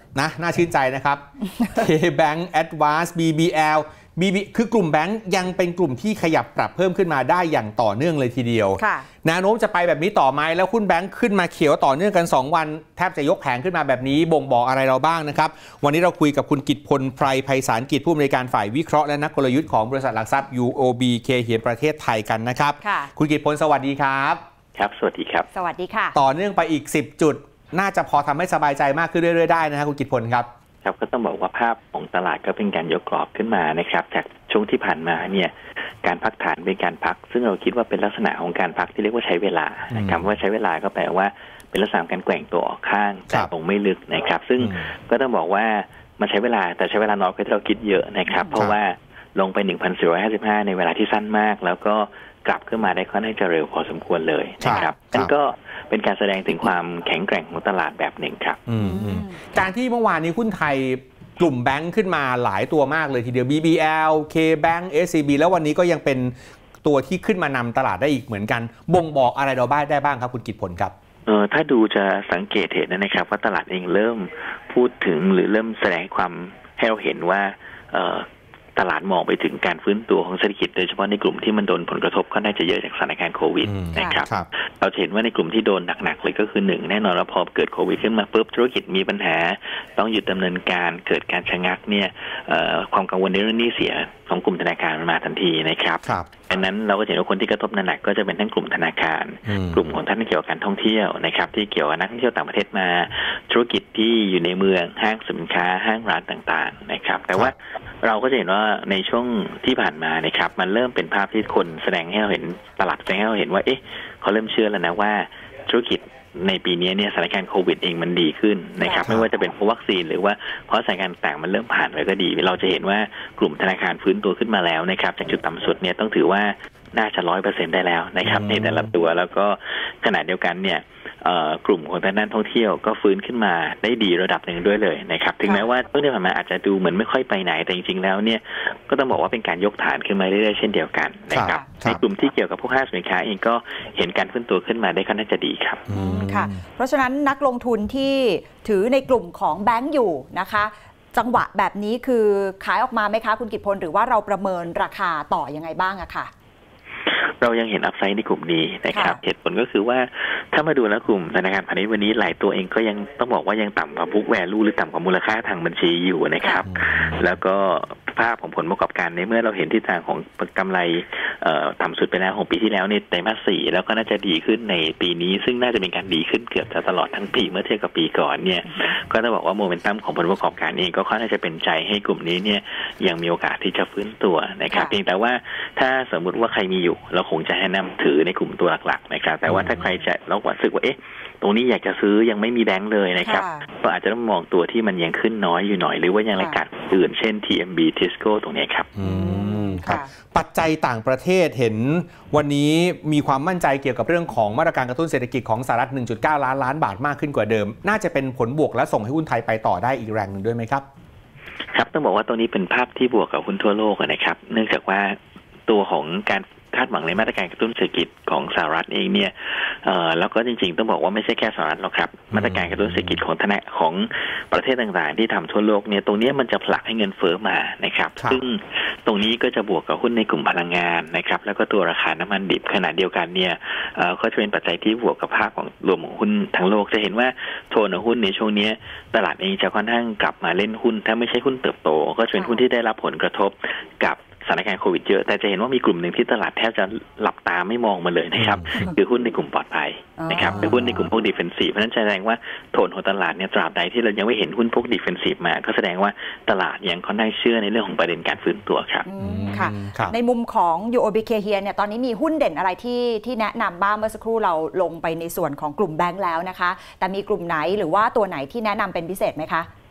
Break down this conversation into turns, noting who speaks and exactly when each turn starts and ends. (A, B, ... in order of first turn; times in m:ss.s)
0:00.2-0:24.4 A
0:08.8-0:09.1 B
0:22.8-0:23.1 B
0:24.8-0:25.5 C
0:25.5-0:26.2 B
0:26.1-0:30.5 A
0:30.8-0:35.5 C
0:36.0-0:58.6 C
0:39.9-0:40.2 A
0:44.6-0:44.9 A
0:54.6-0:55.3 A
0:54.6-0:54.9 B
0:58.7-1:10.9 A
0:58.8-0:59.7 B
1:11.3-1:18.2 C
1:18.8-2:25.9 C
1:23.7-1:24.5 A
1:24.0-1:24.2 B
1:36.0-1:36.5 A
1:39.5-1:39.8 A
2:08.2-2:08.9 A
2:21.3-2:22.0 A
2:25.9-2:26.6 A
2:25.9-2:36.3 B
2:37.4-3:18.9 C
2:38.9-2:39.2 B
3:13.2-3:13.6 B
3:16.4-3:16.6 B
3:19.0-3:30.8 A
3:19.0-3:20.1 B
3:31.7-3:35.2 C
3:35.7-4:19.1 C
3:42.4-3:42.6 A
4:08.4-4:08.9 A
4:10.2-4:10.7 B
4:10.5-4:11.0 A
4:19.1-4:29.7 B
4:19.2-4:20.1 A